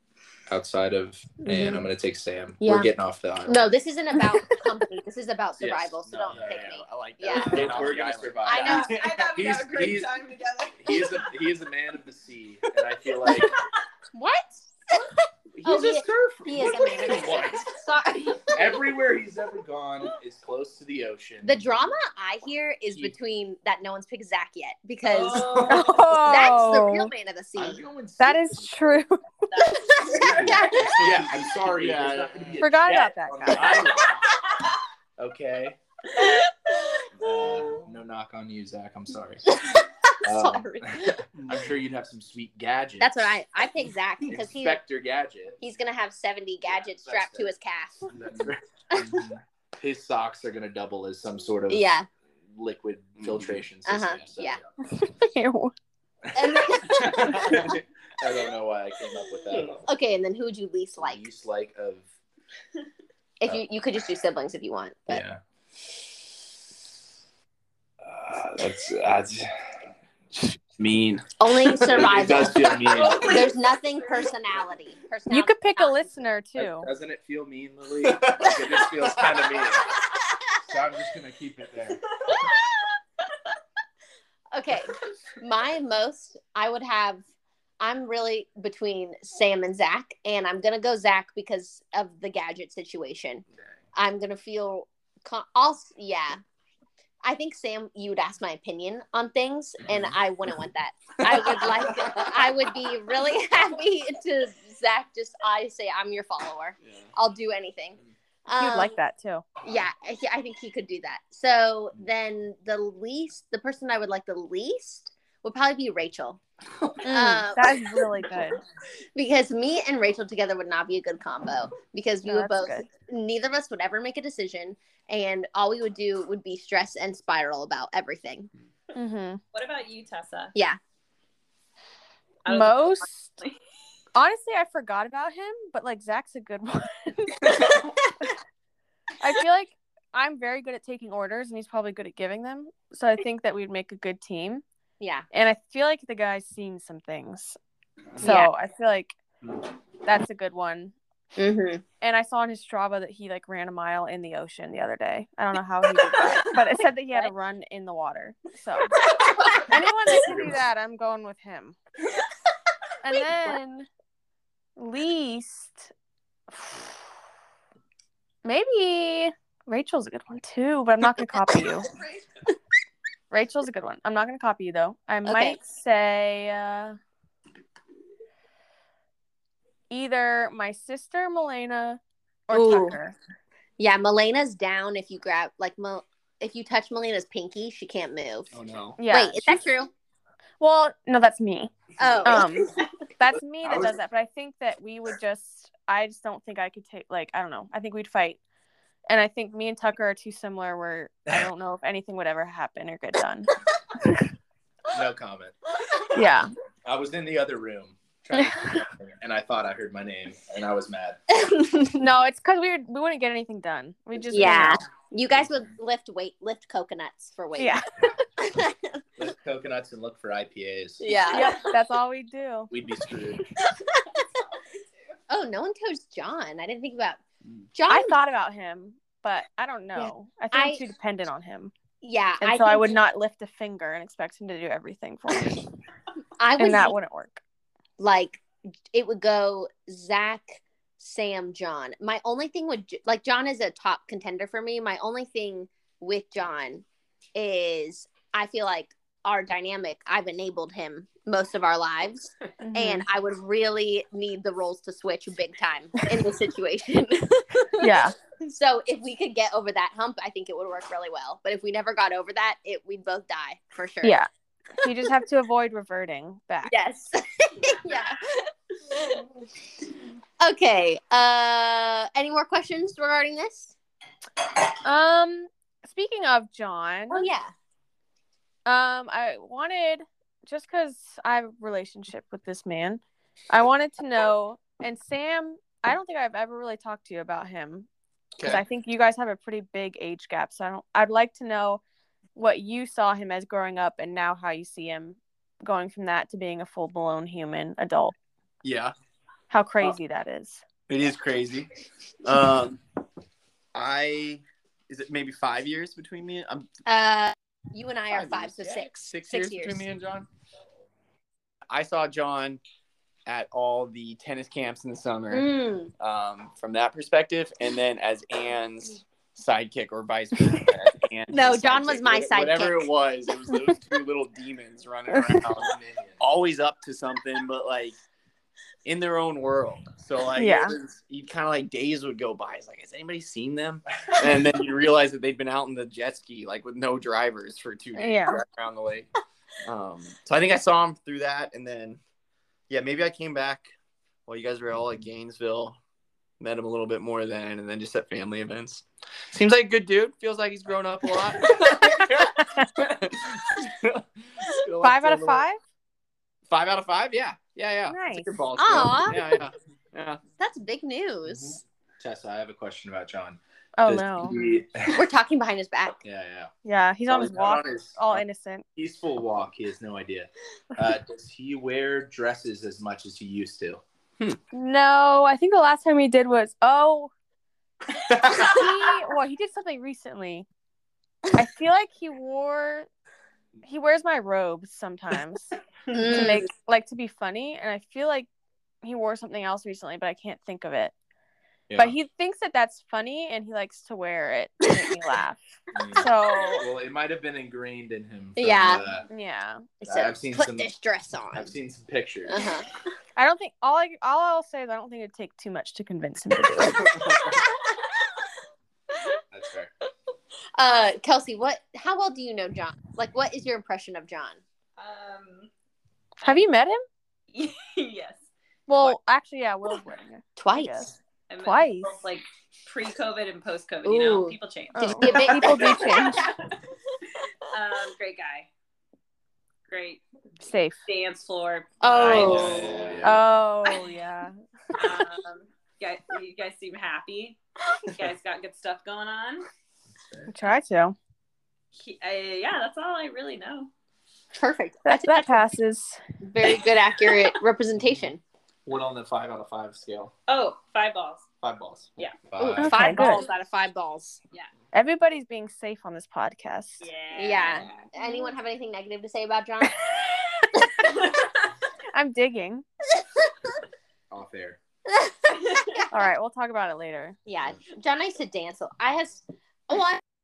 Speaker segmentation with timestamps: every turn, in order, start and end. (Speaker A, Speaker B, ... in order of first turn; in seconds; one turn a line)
Speaker A: 0.5-3.7
Speaker B: 1.5-1.9
Speaker B: 2.6-2.9
Speaker B: 3.5-7.8
Speaker A: 5.6-6.8
Speaker C: 6.0-9.0
Speaker A: 7.3-10.2
Speaker B: 8.4-9.0
Speaker D: 8.6-11.1
Speaker A: 10.8-13.6
Speaker B: 14.1-18.5
Speaker A: 15.6-17.7
Speaker C: 16.6-17.2
Speaker A: 18.5-21.7
Speaker B: 21.4-27.8
Speaker D: 25.2-25.9
Speaker C: 25.4-25.8
Speaker E: 25.7-27.1
Speaker A: 27.6-29.0
Speaker E: 28.2-29.2
Speaker D: 29.6-30.8
Speaker B: 29.7-31.0
Speaker A: 30.1-34.2
Speaker C: 30.7-32.6
Speaker E: 32.6-33.8
Speaker C: 33.6-33.9
Speaker A: 35.2-35.8
Speaker A: 37.2-39.6
Speaker B: 39.7-41.2
Speaker A: 40.2-43.3
Speaker C: 41.4-41.6
Speaker B: 43.0-44.8
Speaker A: 44.2-45.6
Speaker B: 45.6-48.1
Speaker A: 47.0-47.5
Speaker A: 48.1-51.9
Speaker B: 51.7-52.1
Speaker A: 52.5-54.7
Speaker C: 53.2-53.6
Speaker B: 53.9-54.6
Speaker E: 55.0-55.7
Speaker A: 56.3-59.8
Speaker B: 56.3-57.8
Speaker B: 59.9-61.2
Speaker A: 61.0-62.1
Speaker B: 63.4-65.2
Speaker A: 65.1-65.4
Speaker A: 68.0-69.5
Speaker C: 70.3-71.2
Speaker B: 71.4-76.1
Speaker C: 71.8-72.2
Speaker A: 71.8-73.4
Speaker D: 72.8-74.3
Speaker E: 75.3-76.9
Speaker A: 76.6-79.9
Speaker C: 78.2-79.5
Speaker A: 80.7-82.0
Speaker D: 82.2-82.6
Speaker B: 84.5-87.2
Speaker B: 87.8-96.4
Speaker B: 97.2-108.9
Speaker E: 108.6-109.4
Speaker B: 109.6-116.4
Speaker E: 117.0-118.6
Speaker B: 117.1-117.8
Speaker B: 119.2-128.5
Speaker E: 122.2-122.9
Speaker E: 128.9-129.4
Speaker D: 129.5-130.6
Speaker D: 132.4-133.6
Speaker E: 132.5-133.4
Speaker E: 134.2-137.8
Speaker E: 139.2-144.6
Speaker B: 145.0-145.3
Speaker E: 145.3-147.6
Speaker B: 148.2-148.5
Speaker E: 148.2-149.2
Speaker E: 150.1-150.9
Speaker B: 151.4-151.8
Speaker E: 152.0-159.0
Speaker E: 159.5-161.8
Speaker E: 163.0-163.9
Speaker E: 164.8-165.9
Speaker E: 166.5-166.9
Speaker E: 168.4-171.9
Speaker E: 173.3-177.0
Speaker B: 175.2-175.6
Speaker E: 179.9-183.2
Speaker B: 182.5-183.0
Speaker B: 183.8-188.5
Speaker C: 188.5-189.0
Speaker E: 189.0-189.6
Speaker B: 189.1-189.9
Speaker E: 190.6-191.7
Speaker B: 192.0-192.7
Speaker E: 192.2-198.4
Speaker A: 193.6-193.9
Speaker E: 199.1-203.5
Speaker A: 204.9-205.6
Speaker E: 206.1-206.5
Speaker A: 206.8-211.2
Speaker E: 211.9-214.8
Speaker B: 214.3-217.8
Speaker E: 217.6-217.8
Speaker B: 218.4-219.0
Speaker A: 219.2-221.1
Speaker B: 221.0-221.7
Speaker E: 221.3-222.7
Speaker A: 222.7-223.4
Speaker B: 225.3-227.2
Speaker B: 227.7-228.2
Speaker E: 227.9-231.7
Speaker B: 230.0-230.8
Speaker B: 232.0-233.0
Speaker E: 232.4-235.7
Speaker B: 236.4-236.9
Speaker E: 236.6-237.4
Speaker B: 238.0-264.2
Speaker E: 252.6-253.1
Speaker E: 257.8-258.1
Speaker E: 264.0-266.7
Speaker B: 266.7-269.2
Speaker B: 270.4-273.8
Speaker E: 274.8-277.3
Speaker B: 277.1-277.5
Speaker E: 278.7-287.9
Speaker C: 288.4-288.6
Speaker E: 288.4-291.8
Speaker E: 292.4-298.1
Speaker C: 298.6-298.9
Speaker E: 299.5-300.6
Speaker C: 300.9-301.7
Speaker C: 302.2-302.8
Speaker C: 303.7-306.7
Speaker B: 306.9-309.8
Speaker C: 308.1-310.3
Speaker C: 311.7-312.6
Speaker C: 313.3-328.0
Speaker B: 315.3-315.9
Speaker B: 321.3-322.9
Speaker A: 325.6-326.2
Speaker C: 328.9-339.1
Speaker E: 330.4-330.8
Speaker E: 338.0-338.4
Speaker C: 339.6-342.0
Speaker C: 342.7-343.7
Speaker C: 344.3-345.8
Speaker C: 346.4-355.4
Speaker E: 354.8-355.6
Speaker C: 356.5-360.2
Speaker E: 357.9-358.3
Speaker B: 358.6-359.4
Speaker B: 360.4-361.6
Speaker A: 361.3-365.1
Speaker E: 363.8-364.4
Speaker B: 364.9-366.0
Speaker A: 366.0-366.5
Speaker E: 366.6-368.6
Speaker A: 367.1-368.2
Speaker A: 368.8-373.8
Speaker E: 374.5-377.1
Speaker E: 378.3-380.5
Speaker E: 381.4-382.9
Speaker E: 383.6-385.5
Speaker D: 385.9-386.2
Speaker B: 385.9-386.5
Speaker E: 386.1-388.3
Speaker E: 388.8-390.9
Speaker A: 391.7-391.9
Speaker E: 391.8-396.6
Speaker A: 395.7-399.1
Speaker B: 398.4-398.8
Speaker E: 399.1-399.7
Speaker A: 399.8-400.7
Speaker B: 399.8-401.5
Speaker A: 401.3-402.4
Speaker B: 402.3-402.7
Speaker E: 403.2-406.9
Speaker B: 406.9-407.8
Speaker A: 409.3-409.7
Speaker B: 410.6-414.4
Speaker D: 414.8-415.5
Speaker E: 416.2-416.8
Speaker D: 417.3-418.3
Speaker E: 418.7-422.0
Speaker B: 420.4-421.0
Speaker D: 421.3-426.5
Speaker B: 423.8-426.2
Speaker E: 424.8-426.2
Speaker D: 427.5-428.5
Speaker D: 429.7-430.0
Speaker E: 430.4-430.8
Speaker D: 430.9-432.6
Speaker B: 431.8-432.8
Speaker A: 431.9-433.2
Speaker C: 432.1-433.0
Speaker E: 433.0-434.3
Speaker D: 434.8-439.5
Speaker E: 440.3-441.0
Speaker D: 441.8-443.7
Speaker B: 444.3-445.3
Speaker E: 444.9-446.0
Speaker B: 446.2-448.2
Speaker C: 448.7-450.1
Speaker D: 450.3-451.3
Speaker C: 451.4-452.0
Speaker A: 452.3-452.9
Speaker B: 452.4-454.2
Speaker E: 452.6-453.2
Speaker E: 454.7-456.9
Speaker D: 456.8-457.9
Speaker B: 457.1-459.9
Speaker B: 460.6-460.9
Speaker D: 460.8-461.6
Speaker E: 461.9-462.6
Speaker A: 464.1-464.6
Speaker B: 464.9-465.8
Speaker D: 465.3-465.8
Speaker E: 465.9-467.2
Speaker B: 467.3-470.0